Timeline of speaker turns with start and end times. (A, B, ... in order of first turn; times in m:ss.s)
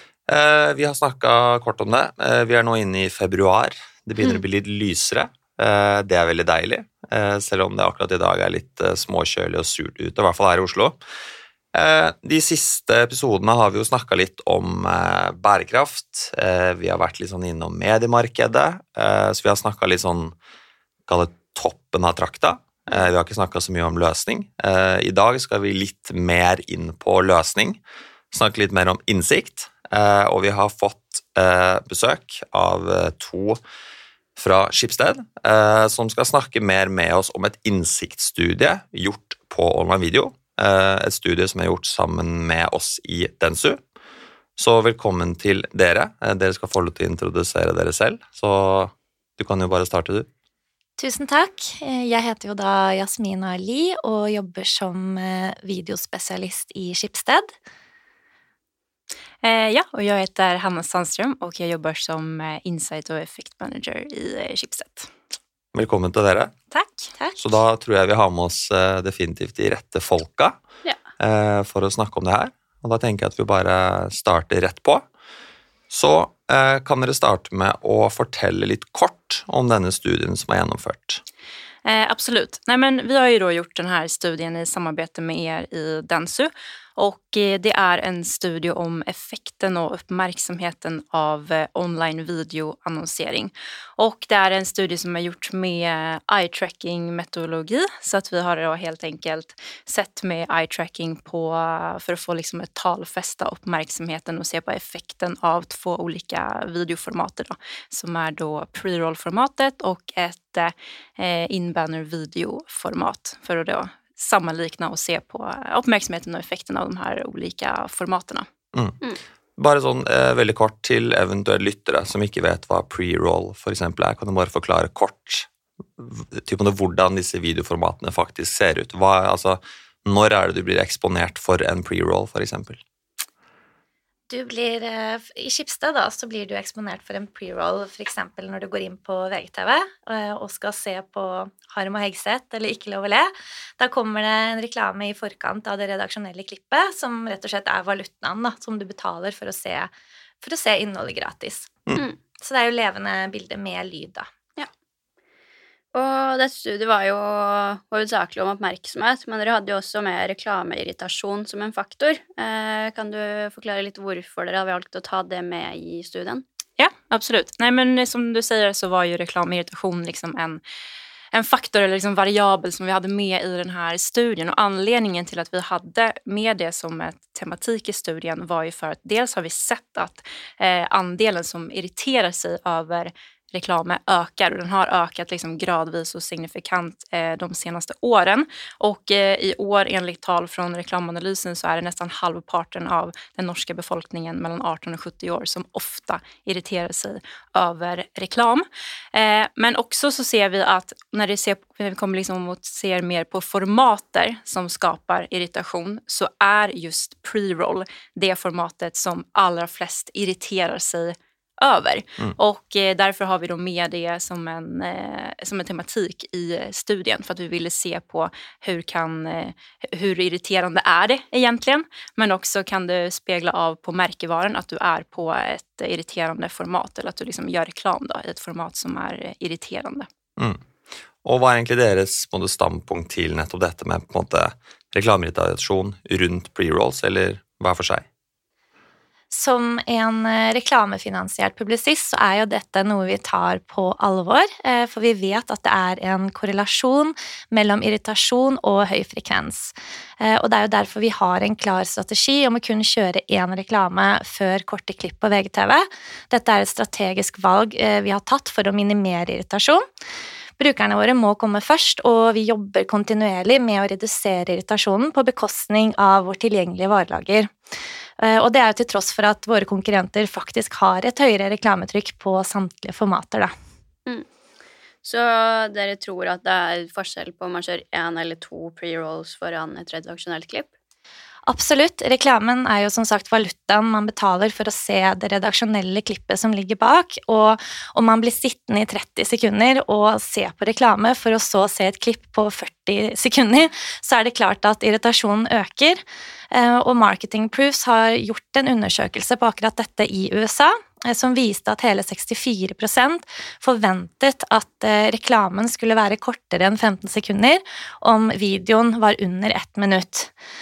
0:00.3-0:11.0 A
0:11.7-0:20.3 A
0:21.1-0:27.8 A
0:28.3-0:33.6 A
0:34.4-0:43.8 A
0:44.6-0:50.3 A
0:51.0-0:57.5 B
0:59.4-1:05.1 C
1:05.7-1:06.5 A
1:06.7-1:07.1 C
1:07.2-1:07.6 B
1:07.4-1:10.6 A
1:11.2-1:15.0 A
1:15.9-1:21.2 A
1:21.8-1:58.5 C
1:59.6-2:12.8 A
2:14.3-2:31.8 B
2:32.4-2:34.3 B
2:35.9-2:46.4 D
2:46.8-2:50.6 C
2:51.3-3:50.1 C
3:51.2-3:58.0 A
3:59.3-4:19.8 B
4:20.6-4:27.5 B
4:28.2-4:33.5 B
4:35.0-4:40.7 D
4:41.5-5:10.3 B